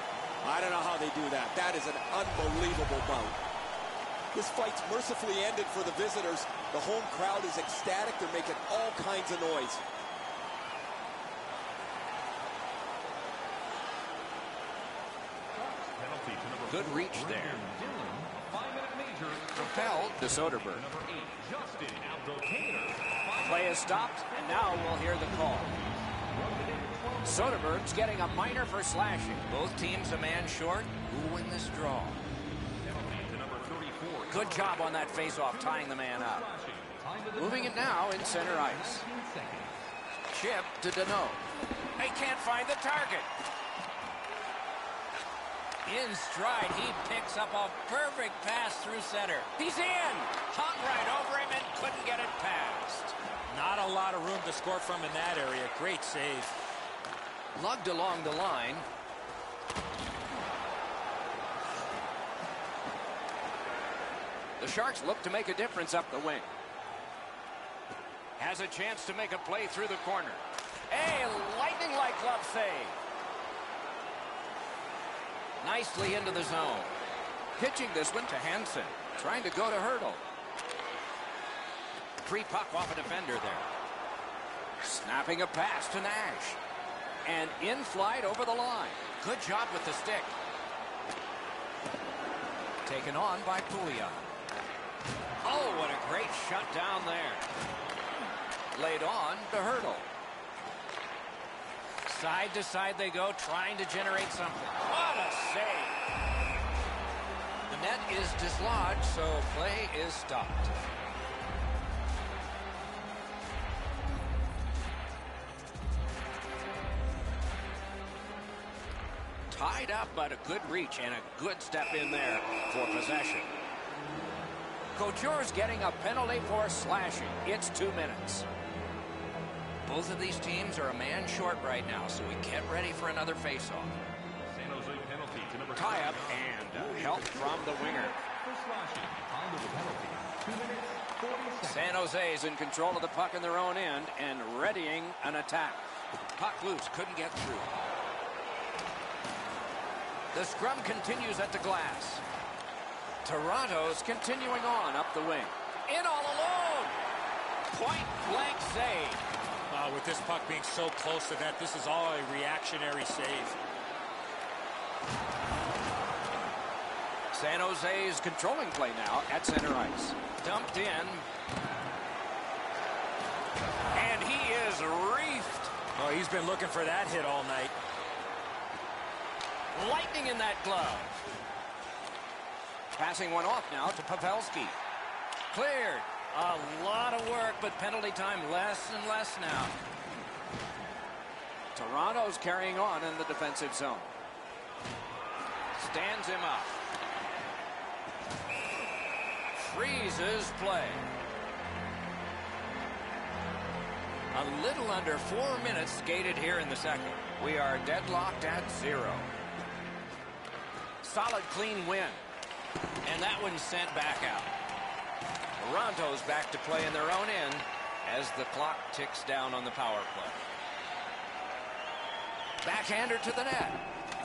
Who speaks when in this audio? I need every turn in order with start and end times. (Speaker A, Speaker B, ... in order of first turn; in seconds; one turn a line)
Speaker A: 0.4-3.4
Speaker A: 4.3-9.8
Speaker B: 15.6-27.7
Speaker C: 16.7-17.6
Speaker C: 19.5-20.8
Speaker C: 23.4-25.7
Speaker C: 27.2-32.2
Speaker B: 32.8-39.8
Speaker C: 34.3-36.5
Speaker C: 37.4-39.1
Speaker C: 40.3-41.4
Speaker C: 42.0-43.3
Speaker C: 45.9-53.1
Speaker D: 53.5-56.5
Speaker C: 57.5-58.9
Speaker C: 64.6-66.5
Speaker C: 68.4-73.0
Speaker C: 75.6-76.9
Speaker C: 77.6-80.2
Speaker C: 82.2-83.7
Speaker C: 84.8-86.6
Speaker C: 87.2-90.3
Speaker C: 92.8-94.3
Speaker C: 95.4-97.5
Speaker C: 98.7-100.1
Speaker C: 102.0-106.0
Speaker C: 107.7-110.7
Speaker C: 119.5-123.5
Speaker C: 125.0-128.4
Speaker C: 129.8-133.9
Speaker B: 134.5-141.9
Speaker C: 135.7-138.2
Speaker C: 141.6-145.8
Speaker C: 146.3-147.7
Speaker C: 150.3-152.2
Speaker C: 153.2-157.0
Speaker C: 157.7-159.2
Speaker D: 159.7-163.6
Speaker C: 167.3-171.3
Speaker C: 173.9-175.7
Speaker D: 175.9-177.7
Speaker C: 179.7-181.2
Speaker C: 182.9-184.8
Speaker C: 185.5-189.8
Speaker C: 191.7-194.1
Speaker C: 195.7-196.8
Speaker C: 199.5-201.0
Speaker C: 204.3-209.3
Speaker C: 211.0-212.2
Speaker C: 213.0-214.5
Speaker C: 215.6-220.4
Speaker C: 222.6-223.8